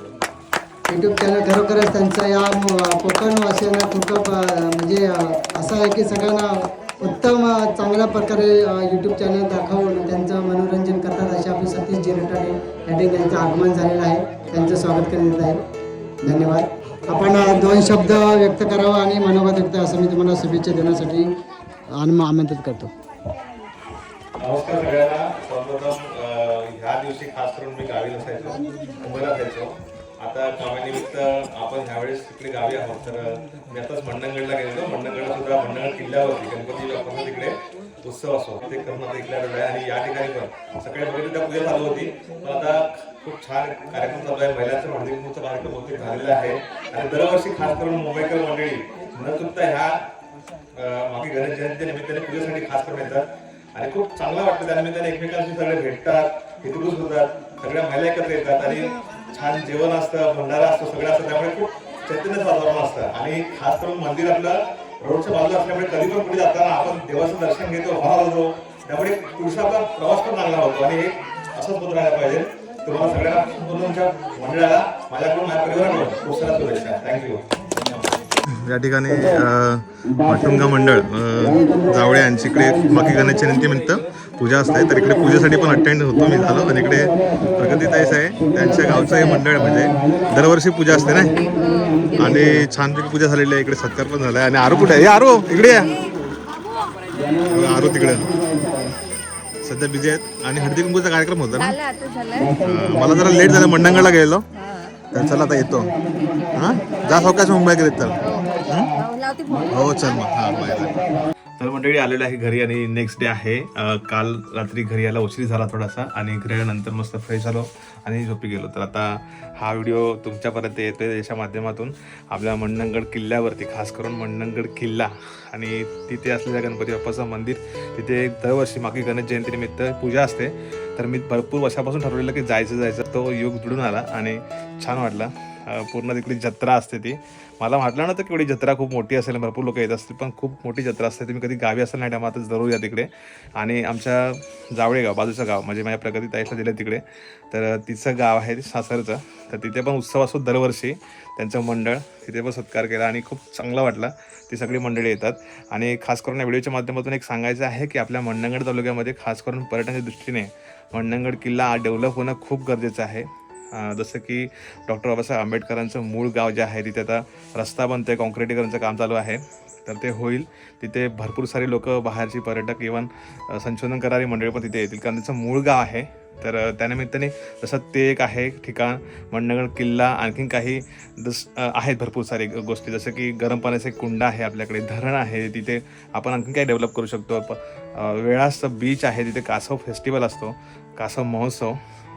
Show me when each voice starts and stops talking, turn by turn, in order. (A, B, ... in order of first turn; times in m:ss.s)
0:00.9-0:15.6 A
0:16.2-0:21.3 A
0:21.9-0:22.9 A
0:24.4-0:50.1 B
0:50.7-1:17.5 B
1:18.4-1:31.3 B
1:31.3-1:32.5 C
1:32.2-1:36.0 B
1:37.4-1:38.3 B
1:39.6-1:41.8 B
1:41.5-1:42.6 C
1:42.6-1:44.4 B
1:45.1-1:45.9 B
1:46.5-1:48.9 B
1:48.2-1:50.2 C
1:49.7-1:51.0 B
1:51.6-3:11.8 B